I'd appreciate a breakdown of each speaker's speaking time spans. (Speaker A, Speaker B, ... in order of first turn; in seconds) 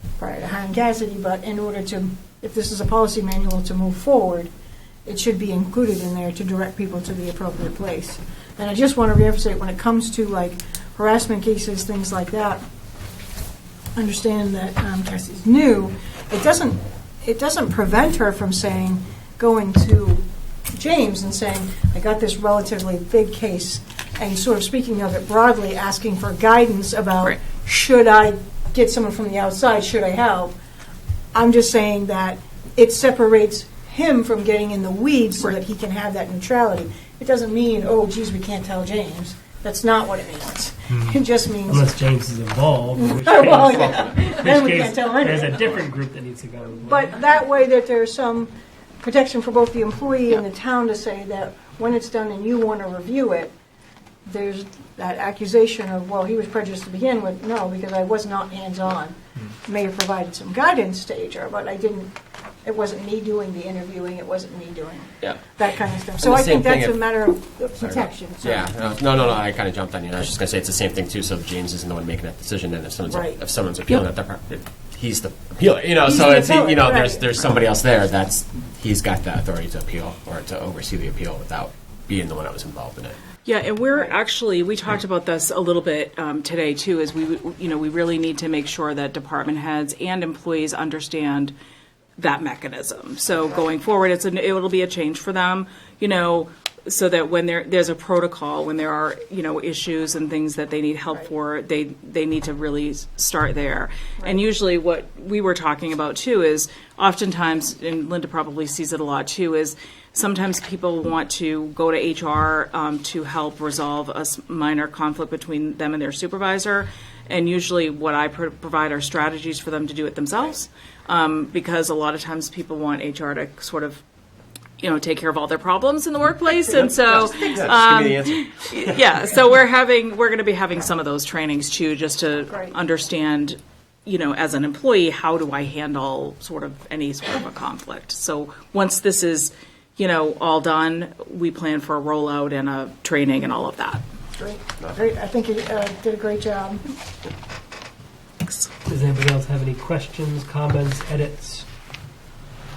Speaker A: 0.2-4.5, 5.1-12.6, 14.0-30.6, 31.3-41.9, 43.0-45.8, 46.9-53.5, 54.2-68.8, 73.1-73.4, 76.0-77.3, 127.2-127.5, 144.4-146.8
Speaker B: 41.7-47.1, 148.9-151.7
Speaker C: 66.2-67.2, 67.8-83.2, 126.7-129.0
Speaker D: 83.5-91.5, 92.2-124.0, 124.8-144.0, 148.4-148.7